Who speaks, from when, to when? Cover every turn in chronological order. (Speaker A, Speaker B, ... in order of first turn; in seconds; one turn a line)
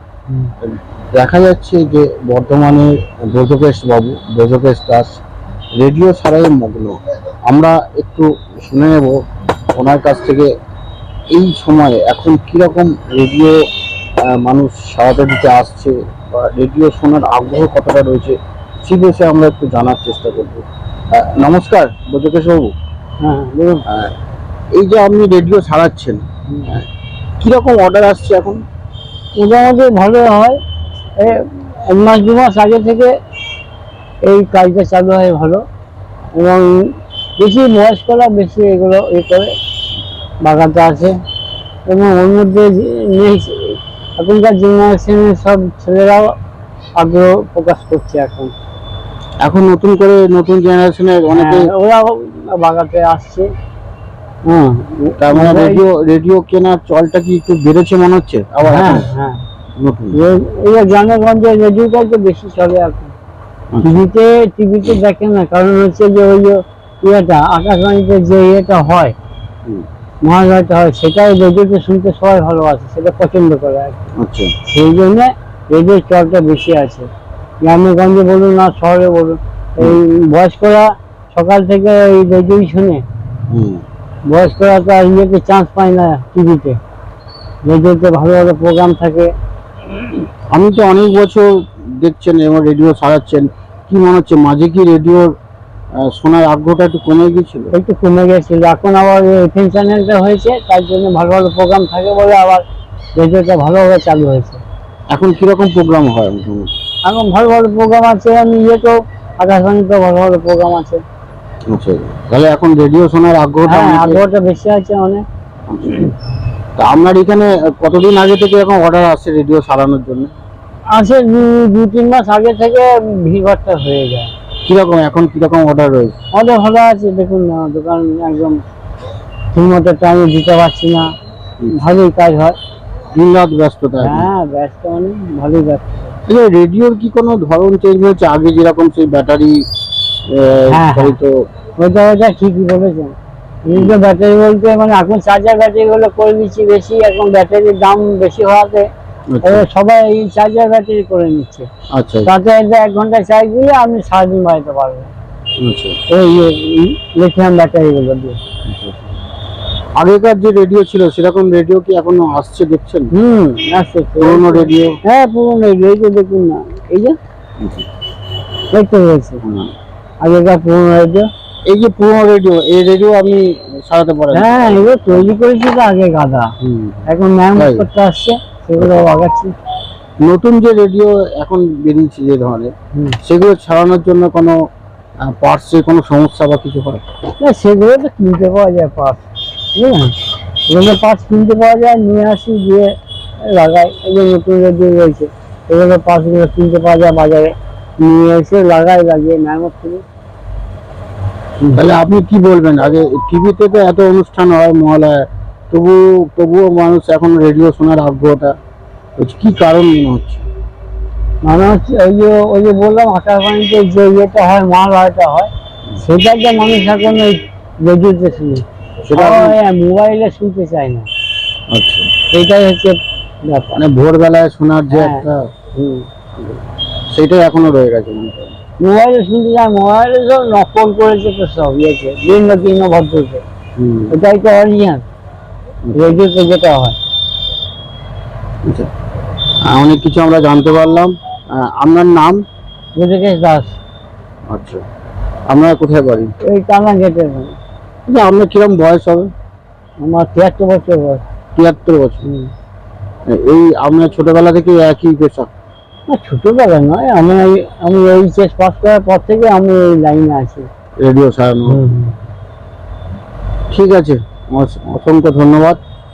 Speaker A: 0.6-5.2
Speaker A: 5.8-7.0
Speaker A: 7.5-9.2
Speaker A: 9.8-10.5
Speaker A: 11.3-13.6
Speaker A: 14.2-22.7
Speaker B: 23.2-23.8
Speaker A: 23.9-24.1
Speaker A: 24.7-26.9
Speaker B: 26.5-26.8
Speaker A: 27.4-28.6
Speaker B: 29.3-30.6
Speaker B: 31.2-33.1
Speaker B: 34.2-35.6
Speaker B: 36.3-36.8
Speaker B: 37.4-39.5
Speaker B: 40.4-41.2
Speaker B: 41.9-46.3
Speaker B: 47.0-48.5
Speaker A: 49.4-51.7
Speaker B: 51.3-53.5
Speaker B: 54.5-55.8
Speaker A: 55.2-59.1
Speaker B: 58.6-59.4
Speaker A: 59.8-60.1
Speaker B: 60.1-63.1
Speaker A: 63.7-64.0
Speaker B: 63.8-69.1
Speaker B: 70.2-74.0
Speaker A: 74.2-74.5
Speaker B: 74.7-77.1
Speaker B: 77.6-83.0
Speaker A: 83.5-83.8
Speaker B: 84.3-86.8
Speaker B: 87.6-89.3
Speaker A: 90.5-95.3
Speaker A: 96.0-97.7
Speaker B: 97.7-102.6
Speaker B: 103.2-104.6
Speaker A: 105.1-106.7
Speaker B: 107.0-111.0
Speaker A: 111.7-114.2
Speaker B: 113.6-115.2
Speaker A: 115.7-116.1
Speaker A: 116.8-120.3
Speaker B: 120.9-124.3
Speaker A: 124.6-126.1
Speaker B: 126.3-128.6
Speaker B: 129.5-131.1
Speaker B: 131.7-132.6
Speaker A: 133.1-134.3
Speaker B: 134.0-136.1
Speaker A: 136.3-139.6
Speaker A: 140.3-141.3
Speaker B: 140.7-141.2
Speaker B: 141.8-143.1
Speaker B: 143.7-148.9
Speaker A: 149.3-149.6
Speaker B: 149.4-151.7
Speaker A: 151.9-152.3
Speaker B: 152.2-155.1
Speaker A: 155.6-156.0
Speaker B: 156.1-158.4
Speaker A: 158.6-159.1
Speaker A: 160.0-163.1
Speaker B: 163.1-167.2
Speaker A: 164.2-165.0
Speaker A: 167.6-167.8
Speaker B: 168.7-169.4
Speaker A: 169.4-169.7
Speaker B: 170.2-171.3
Speaker A: 171.7-175.3
Speaker B: 174.3-176.5
Speaker A: 176.6-177.8
Speaker B: 177.1-179.6
Speaker A: 180.2-184.6
Speaker A: 185.3-187.0
Speaker B: 187.4-190.1
Speaker B: 190.7-200.0
Speaker A: 201.7-208.5
Speaker A: 209.2-210.4
Speaker B: 211.4-218.6
Speaker A: 219.0-219.6
Speaker B: 219.1-221.1
Speaker A: 221.7-222.1
Speaker B: 222.3-223.8
Speaker A: 223.7-225.5
Speaker B: 224.9-226.1
Speaker A: 227.1-228.6
Speaker B: 228.8-233.4
Speaker A: 233.8-234.1
Speaker B: 234.1-235.0
Speaker A: 235.9-236.2
Speaker B: 235.9-237.0
Speaker A: 239.7-242.4
Speaker B: 242.9-243.8
Speaker A: 244.5-244.8
Speaker A: 245.5-246.3
Speaker B: 246.4-247.6
Speaker A: 248.1-249.3
Speaker B: 250.0-251.2
Speaker A: 251.5-252.2
Speaker B: 252.2-252.5
Speaker A: 253.3-255.5
Speaker B: 256.1-260.7
Speaker A: 261.0-261.8
Speaker B: 261.6-262.1
Speaker A: 263.7-265.8